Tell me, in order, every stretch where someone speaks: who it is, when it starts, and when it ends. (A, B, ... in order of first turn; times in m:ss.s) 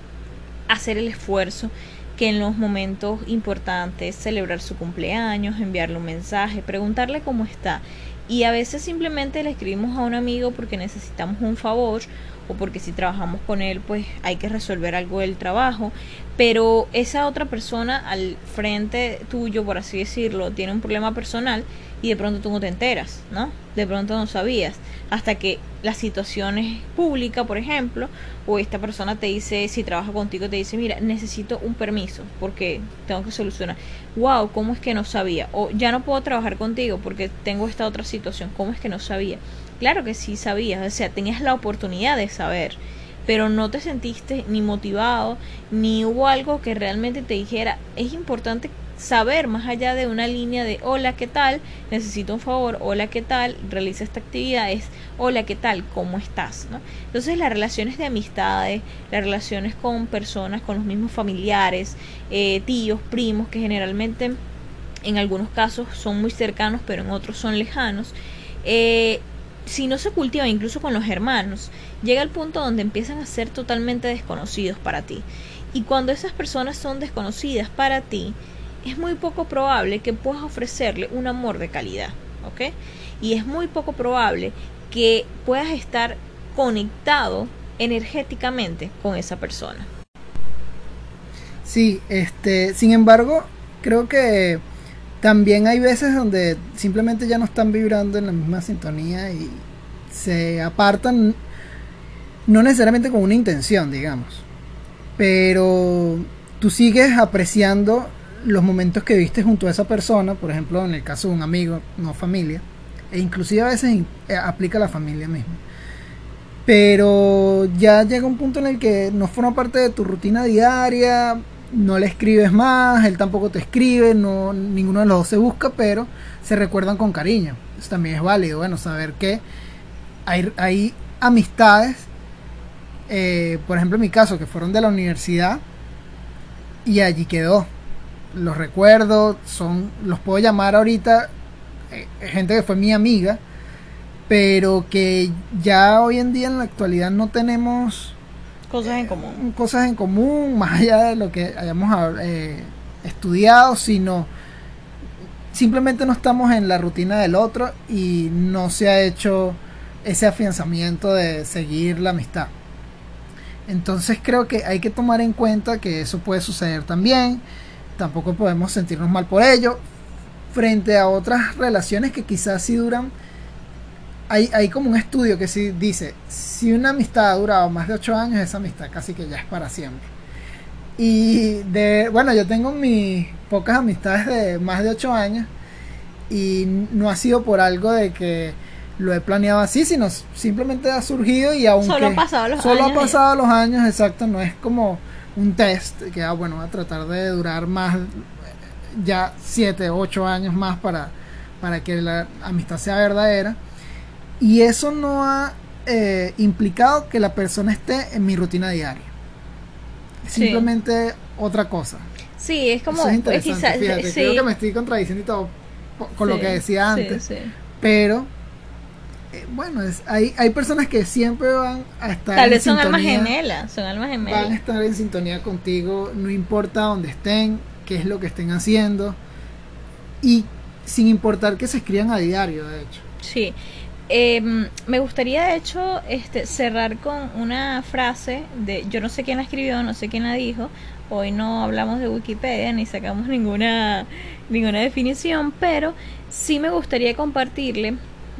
0:00.7-1:04.4 A
1:05.0-1:29.9 A
1:31.6-1:34.6 B
1:35.2-1:41.4 B
1:42.5-1:44.4 B
1:45.2-1:55.6 B
1:56.6-2:09.4 B
2:10.2-2:12.1 B
2:13.1-2:15.6 B
2:16.8-2:17.7 B
2:18.3-2:21.3 B
2:21.9-2:23.4 B
2:24.3-2:28.2 B
2:28.7-2:29.4 A
2:28.8-2:34.3 B
2:35.5-2:42.5 B
2:43.7-2:47.4 B
2:48.0-2:49.8 B
2:50.5-2:53.1 B
2:54.3-3:00.1 B
3:01.0-3:05.5 B
3:06.3-3:23.6 B
3:11.8-3:13.2 A
3:24.4-3:29.1 B
3:30.2-3:32.1 B
3:30.3-3:30.7 A
3:32.4-3:34.5 A
3:32.9-3:37.2 B
3:36.2-3:37.5 A
3:37.8-3:38.3 B
3:39.3-3:43.3 B
3:42.3-3:44.6 A
3:44.2-3:49.2 B
3:50.2-3:53.0 B
3:53.2-3:53.6 A
3:54.1-4:08.0 A